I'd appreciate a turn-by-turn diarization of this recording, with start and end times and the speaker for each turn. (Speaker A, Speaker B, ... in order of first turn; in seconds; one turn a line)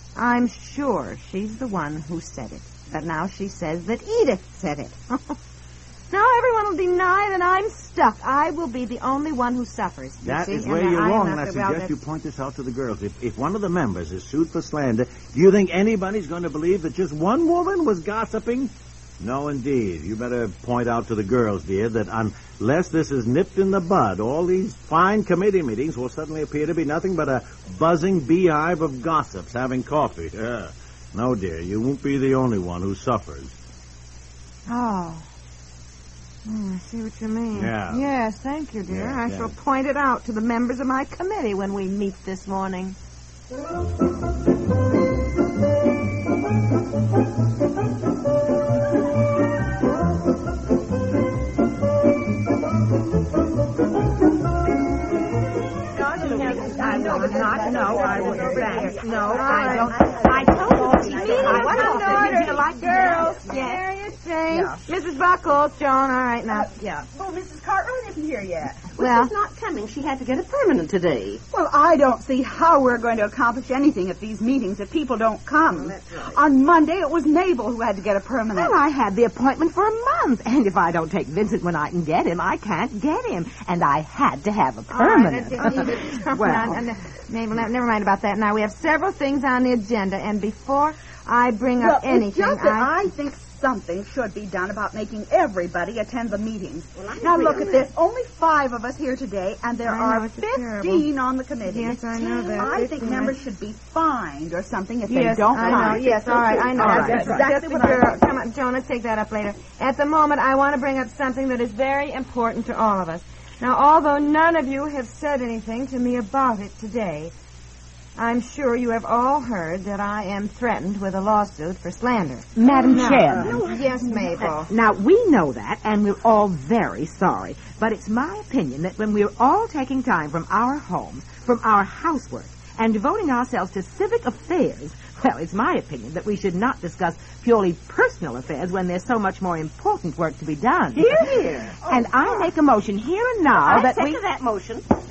Speaker A: 0.2-5.4
Speaker A: 6.1-11.9
Speaker B: 10.2-33.6
Speaker A: 34.7-35.3
Speaker A: 36.5-43.0
Speaker B: 37.5-38.1
Speaker B: 38.9-39.5
Speaker C: 56.1-59.3
Speaker A: 56.2-60.3
Speaker D: 56.3-63.4
Speaker E: 56.5-63.5
Speaker A: 60.9-66.7
Speaker C: 61.6-63.8
Speaker C: 64.5-64.8
Speaker C: 66.5-68.9
Speaker D: 68.9-71.4
Speaker A: 69.0-69.3
Speaker C: 71.5-78.8
Speaker D: 75.7-76.1
Speaker E: 78.5-86.8
Speaker A: 84.9-93.0
Speaker C: 91.8-108.2
Speaker D: 97.0-97.9
Speaker A: 97.2-97.7
Speaker A: 99.8-101.1
Speaker A: 101.6-103.4
Speaker A: 105.1-117.3
Speaker D: 106.9-107.4
Speaker A: 118.2-124.7
Speaker E: 122.5-123.7
Speaker C: 122.7-124.3
Speaker E: 124.7-141.2
Speaker D: 140.9-142.5
Speaker E: 141.8-144.2
Speaker D: 143.5-144.8